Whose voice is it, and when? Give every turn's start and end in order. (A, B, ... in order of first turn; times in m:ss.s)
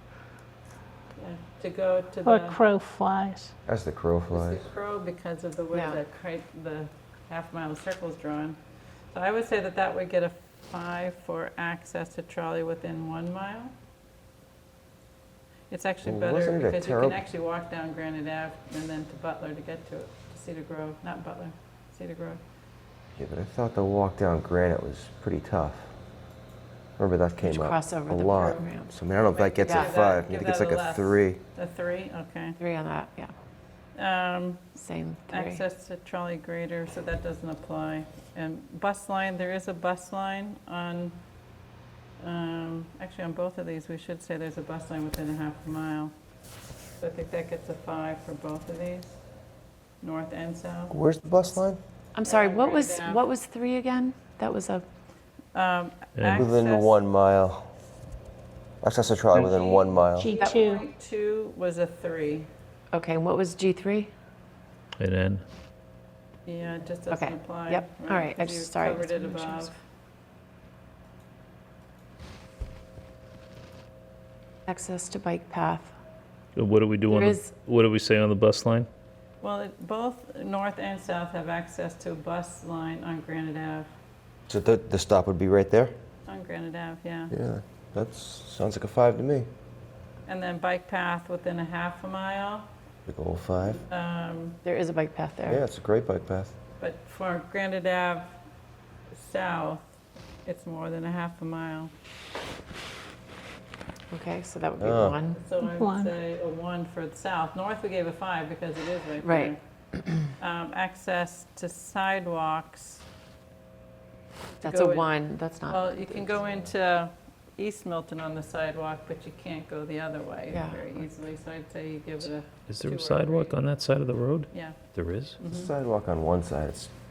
0:01.2-0:02.6 A
0:02.2-0:03.5 B
0:03.7-0:04.7 C
0:04.3-0:08.6 A
0:05.7-0:06.0 D
0:09.1-0:13.7 A
0:15.7-0:22.4 A
0:16.0-0:17.2 C
0:23.2-0:25.9 C
0:27.0-0:31.4 C
0:27.4-0:28.9 D
0:28.4-0:28.7 A
0:29.3-0:32.6 A
0:29.6-0:29.9 D
0:32.6-0:33.3 D
0:34.0-0:41.2 A
0:34.8-0:35.6 D
0:42.2-0:46.1 A
0:47.0-0:49.2 A
0:50.0-0:51.0 A
0:50.9-0:51.8 C
0:52.2-0:54.8 D
0:52.2-0:53.3 A
0:55.5-0:57.0 A
0:56.2-0:56.5 E
0:56.3-0:57.7 C
0:58.8-1:00.3 C
0:59.4-1:02.5 A
1:00.2-1:00.8 B
1:02.9-1:04.1 D
1:05.0-1:05.4 E
1:06.5-1:09.7 A
1:07.1-1:09.7 D
1:14.7-1:15.9 D
1:16.6-1:18.9 E
1:17.1-1:17.5 D
1:19.4-1:23.9 A
1:24.5-1:25.9 C
1:26.3-1:27.3 A
1:27.3-1:29.5 C
1:30.3-1:32.7 A
1:33.1-1:33.8 C
1:33.7-1:34.6 A
1:34.6-1:35.6 D
1:35.5-1:36.5 C
1:36.8-1:38.4 A
1:39.1-1:39.9 A
1:40.4-1:41.9 A
1:44.1-1:45.5 D
1:44.8-1:45.2 C
1:45.3-1:49.6 A
1:45.6-1:46.1 B
1:49.2-1:50.1 D
1:50.4-1:53.0 A
1:54.6-1:55.1 A
1:54.6-1:56.4 D
1:55.7-2:03.6 A
2:00.5-2:00.8 D
2:02.7-2:05.4 E
2:04.5-2:04.8 A
2:05.4-2:05.7 A
2:05.5-2:06.9 C